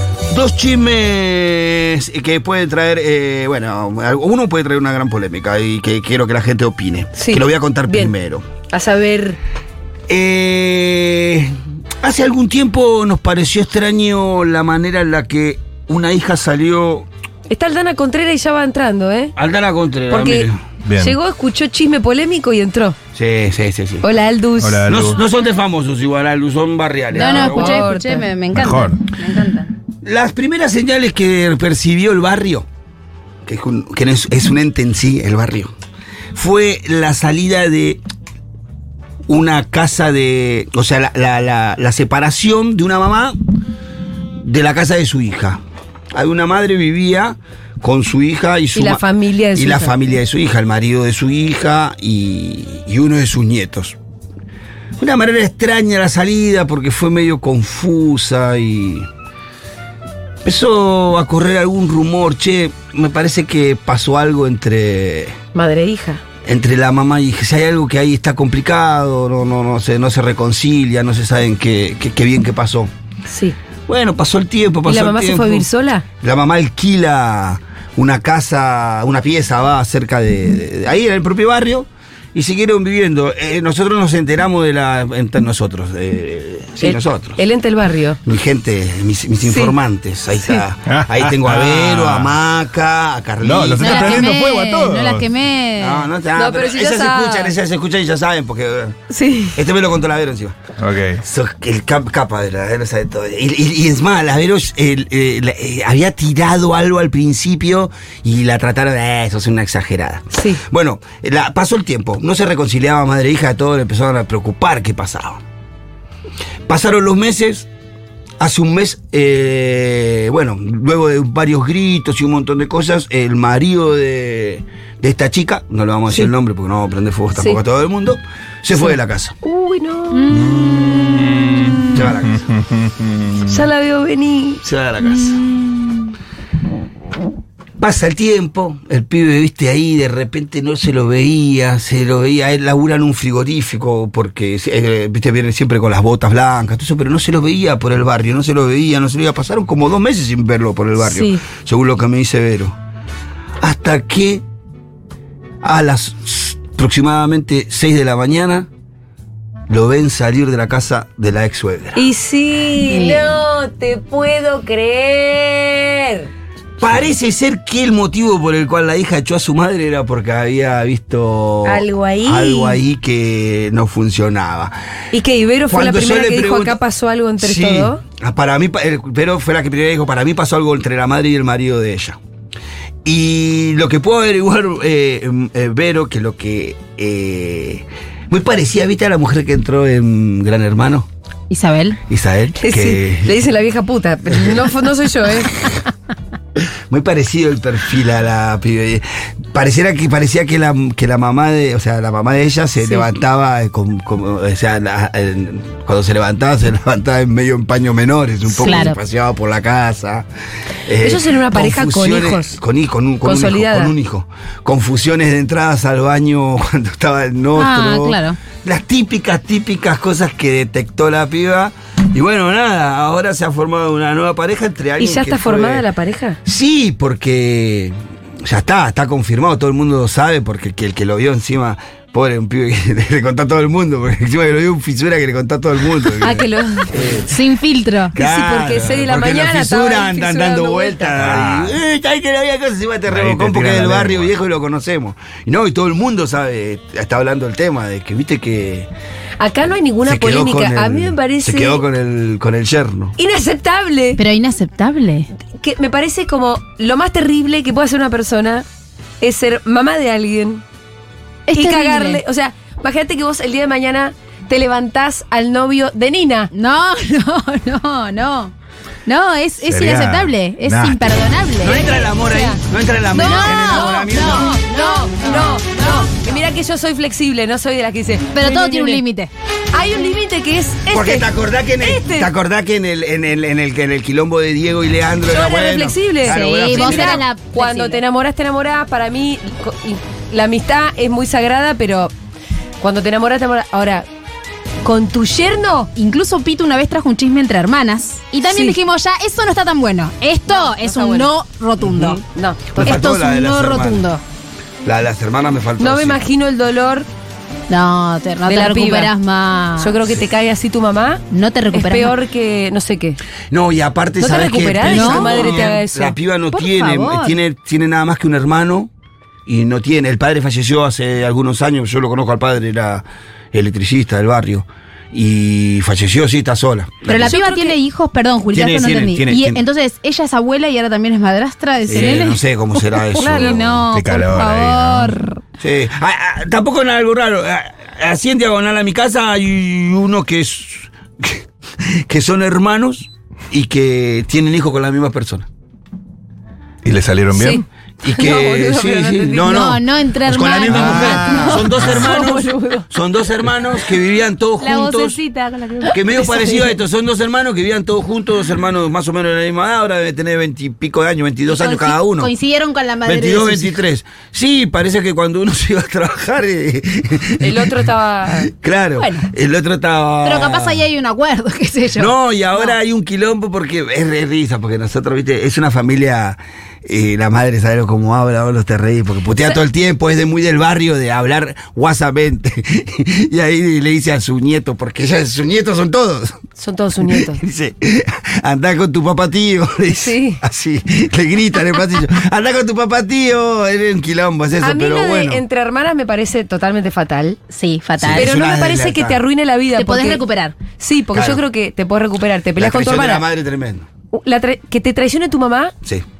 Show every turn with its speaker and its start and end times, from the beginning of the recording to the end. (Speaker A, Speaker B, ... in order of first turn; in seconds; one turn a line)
Speaker A: 0.3-8.4
Speaker B: 7.1-8.1
Speaker B: 8.7-9.4
Speaker A: 10.1-17.1
Speaker B: 17.5-19.3
Speaker A: 19.4-20.6
Speaker B: 20.1-20.5
Speaker C: 20.8-21.2
Speaker B: 21.0-23.0
Speaker A: 23.1-24.0
Speaker B: 24.0-24.9
Speaker C: 24.6-25.2
Speaker A: 24.9-27.8
Speaker D: 27.1-29.7
Speaker B: 27.1-28.3
Speaker C: 28.5-29.0
Speaker A: 30.0-32.6
Speaker A: 33.5-35.7
Speaker A: 36.3-38.0
Speaker A: 39.3-43.4
Speaker A: 44.4-45.6
Speaker A: 46.1-49.0
Speaker B: 48.7-49.9
Speaker A: 49.5-54.0
Speaker A: 55.0-59.1
Speaker A: 60.4-65.3
Speaker B: 65.5-66.2
Speaker A: 66.4-72.9
Speaker B: 73.3-73.5
Speaker A: 73.9-75.7
Speaker B: 74.8-76.0
Speaker A: 76.2-87.4
Speaker B: 86.8-88.2
Speaker A: 88.2-94.3
Speaker B: 89.4-89.7
Speaker C: 90.9-92.4
Speaker C: 93.4-95.3
Speaker D: 93.8-96.1
Speaker A: 95.8-99.0
Speaker B: 96.3-97.5
Speaker B: 99.1-99.6
Speaker A: 99.5-100.5
Speaker C: 100.8-101.2
Speaker A: 101.2-115.4
Speaker B: 110.3-110.6
Speaker A: 116.7-117.7
Speaker A: 118.4-129.3
Speaker B: 128.8-130.5
Speaker D: 130.2-130.4
Speaker C: 130.3-133.7
Speaker A: 130.8-131.2
Speaker B: 131.4-132.0
Speaker A: 131.9-132.5
Speaker B: 133.5-134.6
Speaker A: 134.6-135.4
Speaker A: 137.8-152.7
Speaker B: 151.0-151.4
Speaker A: 153.6-154.4
Speaker A: 155.6-158.7
Speaker A: 159.7-162.0
Speaker B: 161.9-166.3
Speaker D: 162.9-163.3
Speaker A: 166.8-174.7
Speaker B: 171.6-172.8
Speaker B: 175.1-178.0
Speaker A: 175.7-176.8
Speaker A: 177.4-182.2
Speaker A: 183.0-191.1
Speaker D: 191.5-192.0
Speaker A: 192.1-193.3
Speaker B: 192.6-195.5
Speaker A: 194.3-194.7
Speaker A: 196.9-210.2
Speaker D: 208.5-208.9
Speaker A: 210.9-225.8
Speaker B: 211.0-212.6
Speaker B: 213.2-213.9
Speaker D: 217.5-218.4
Speaker B: 225.0-226.4
Speaker A: 226.4-237.3
Speaker B: 236.2-236.9
Speaker D: 237.3-238.1
Speaker A: 238.1-248.9
Speaker B: 238.1-241.2
Speaker C: 241.2-241.8
Speaker C: 243.1-244.3
Speaker B: 249.4-251.8
Speaker A: 250.0-253.2
Speaker B: 253.2-254.2
Speaker D: 254.2-255.3
Speaker B: 255.6-258.6
Speaker B: 259.2-260.6
Speaker D: 261.5-262.2
Speaker B: 261.5-266.5
Speaker D: 266.5-268.5
Speaker D: 269.1-272.6
Speaker C: 269.6-271.0
Speaker A: 271.6-274.6
Speaker D: 273.1-276.1
Speaker B: 273.1-279.0
Speaker D: 278.3-279.3
Speaker B: 279.7-281.3
Speaker A: 280.9-287.2
Speaker B: 281.8-282.3
Speaker B: 285.3-292.1
Speaker D: 286.3-288.0
Speaker B: 292.8-294.1
Speaker B: 294.8-295.9
Speaker D: 295.9-302.2
Speaker B: 298.5-298.8
Speaker B: 300.5-301.3
Speaker B: 301.9-303.0
Speaker D: 302.7-304.2
Speaker A: 302.8-304.0
Speaker A: 304.8-306.2
Speaker B: 305.8-307.1
Speaker D: 307.7-310.0
Speaker B: 308.4-309.1
Speaker B: 309.8-313.2
Speaker D: 311.3-312.1
Speaker A: 313.5-318.9
Speaker B: 314.2-316.1
Speaker D: 314.8-315.7
Speaker D: 316.5-317.4
Speaker A: 319.4-327.3
Speaker D: 327.0-335.3
Speaker B: 327.2-327.8
Speaker A: 328.5-329.6
Speaker A: 331.9-333.8
Speaker B: 333.1-333.5
Speaker C: 333.9-335.2
Speaker A: 335.6-345.5
Speaker C: 346.8-347.6
Speaker B: 347.3-349.7
Speaker A: 348.0-355.2
Speaker D: 349.4-351.6
Speaker C: 350.7-352.1
Speaker B: 351.5-352.9
Speaker D: 354.6-356.7
Speaker A: 355.9-362.3
Speaker B: 356.1-356.6
Speaker D: 361.5-363.8
Speaker A: 363.0-367.9
Speaker B: 367.4-368.5
Speaker A: 368.5-370.8
Speaker D: 369.0-369.3
Speaker D: 370.2-372.1
Speaker A: 371.9-386.4
Speaker B: 386.6-387.4
Speaker A: 387.0-395.4
Speaker B: 390.0-390.4
Speaker B: 394.6-397.4
Speaker D: 397.5-398.3
Speaker A: 398.0-399.2
Speaker B: 398.1-400.2
Speaker D: 399.7-400.6
Speaker B: 400.8-403.2
Speaker A: 401.1-401.4
Speaker A: 402.6-403.9
Speaker B: 404.1-405.7